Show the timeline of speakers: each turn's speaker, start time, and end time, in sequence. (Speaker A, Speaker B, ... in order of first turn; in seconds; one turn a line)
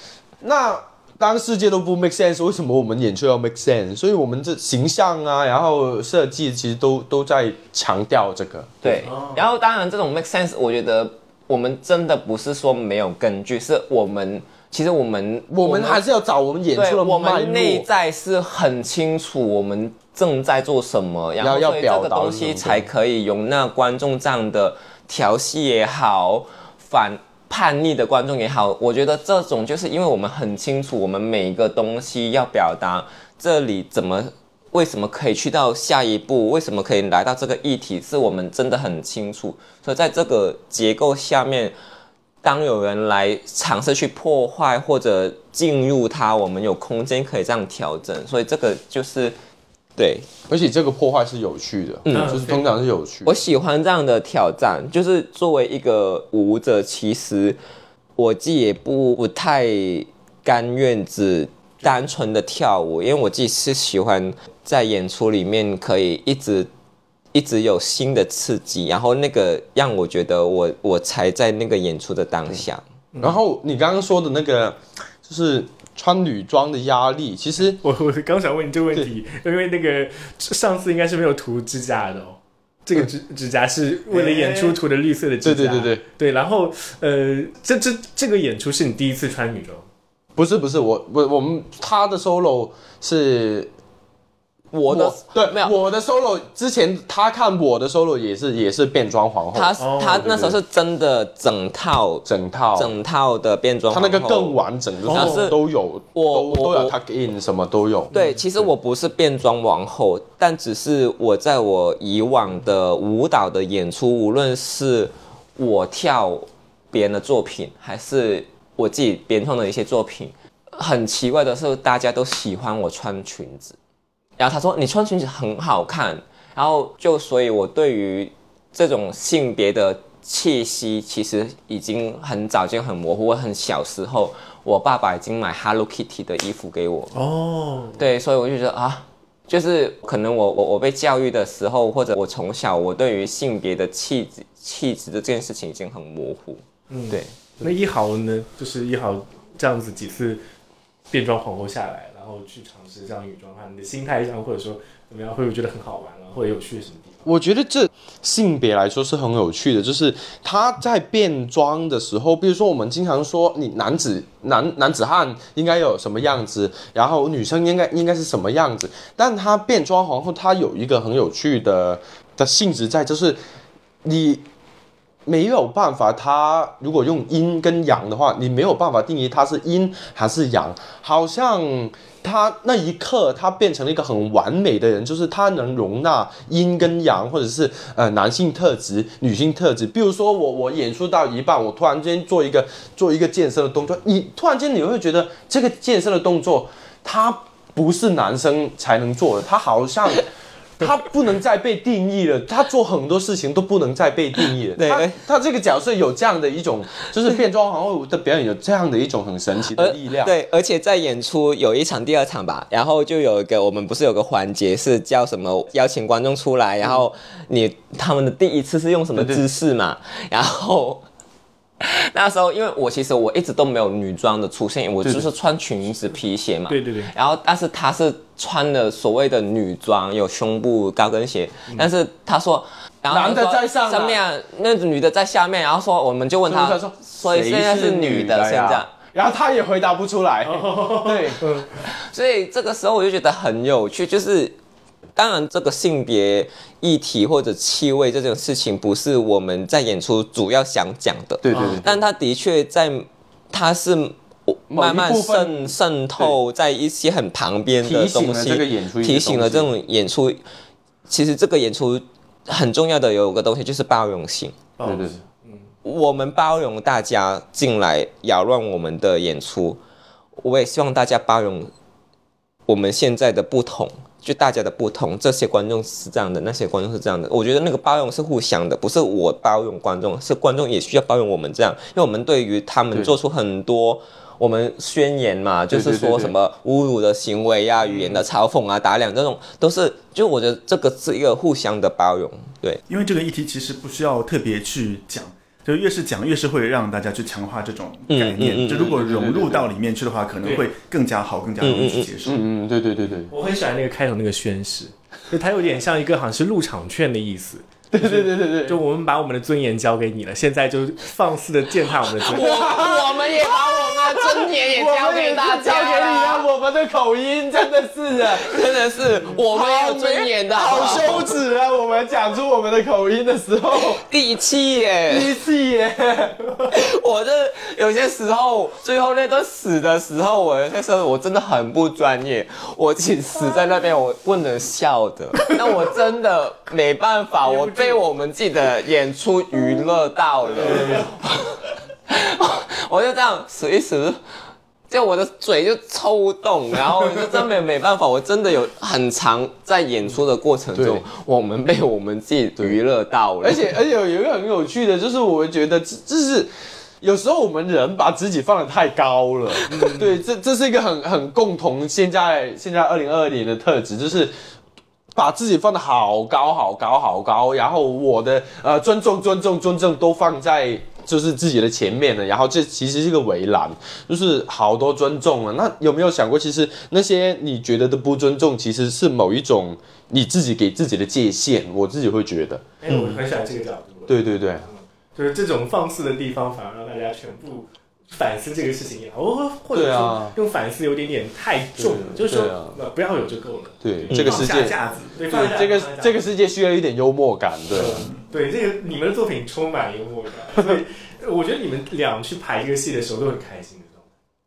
Speaker A: 0.4-9.0
Speaker B: 8.8-16.0
Speaker C: 9.0-9.4
Speaker A: 15.5-17.9
Speaker B: 16.7-41.7
Speaker A: 21.4-22.9
Speaker B: 42.4-49.4
Speaker B: 50.0-50.3
Speaker A: 50.5-53.4
Speaker B: 52.0-52.4
Speaker C: 52.1-52.7
Speaker B: 53.2-57.6
Speaker B: 58.2-66.7
Speaker B: 67.3-72.8
Speaker C: 73.1-73.4
Speaker A: 73.2-77.8
Speaker C: 77.8-89.8
Speaker A: 84.2-84.7
Speaker A: 85.4-86.0
Speaker A: 90.3-93.7
Speaker B: 94.7-95.7
Speaker A: 94.9-100.6
Speaker B: 99.5-102.2
Speaker C: 99.8-100.3
Speaker A: 102.2-102.9
Speaker B: 102.8-104.6
Speaker A: 103.9-108.1
Speaker C: 105.1-105.5
Speaker B: 105.1-105.6
Speaker B: 106.1-106.9
Speaker C: 108.1-108.4
Speaker B: 108.1-123.8
Speaker B: 124.4-137.1
Speaker C: 137.1-138.0
Speaker B: 138.0-147.3
Speaker C: 146.9-150.4
Speaker C: 151.1-157.2
Speaker A: 157.2-173.4
Speaker A: 174.0-174.4
Speaker A: 175.2-210.3
Speaker B: 204.8-205.1
Speaker B: 209.7-221.0
Speaker A: 219.1-219.4
Speaker B: 221.8-238.9
Speaker C: 226.7-227.1
Speaker A: 233.1-234.2
Speaker A: 236.4-241.5
Speaker C: 240.4-241.7
Speaker B: 241.8-244.6
Speaker B: 245.2-260.4
Speaker A: 251.4-252.0
Speaker C: 251.5-251.8
Speaker A: 254.7-256.4
Speaker A: 257.8-259.7
Speaker B: 261.1-264.6
Speaker C: 264.8-265.6
Speaker A: 264.8-265.2
Speaker B: 265.8-269.8
Speaker B: 270.4-271.7
Speaker B: 272.7-292.8
Speaker A: 285.7-286.3
Speaker D: 292.9-302.4
Speaker B: 298.1-298.9
Speaker A: 298.6-299.7
Speaker B: 301.6-302.1
Speaker A: 302.2-303.3
Speaker C: 303.3-312.7
Speaker A: 307.9-308.8
Speaker B: 312.2-316.5
Speaker A: 312.3-324.0
Speaker B: 318.2-321.3
Speaker B: 323.8-325.3
Speaker A: 325.1-326.5
Speaker B: 326.7-344.2
Speaker C: 340.6-341.1
Speaker B: 344.9-353.7
Speaker A: 350.7-351.0
Speaker A: 353.4-356.5
Speaker A: 357.0-364.3
Speaker C: 359.7-360.2
Speaker A: 365.1-382.8
Speaker C: 382.8-396.2
Speaker B: 382.9-383.2
Speaker A: 384.1-384.6
Speaker A: 389.7-390.3
Speaker A: 391.8-392.8
Speaker A: 393.8-394.7
Speaker D: 394.1-395.2
Speaker A: 395.3-398.1
Speaker C: 397.7-404.1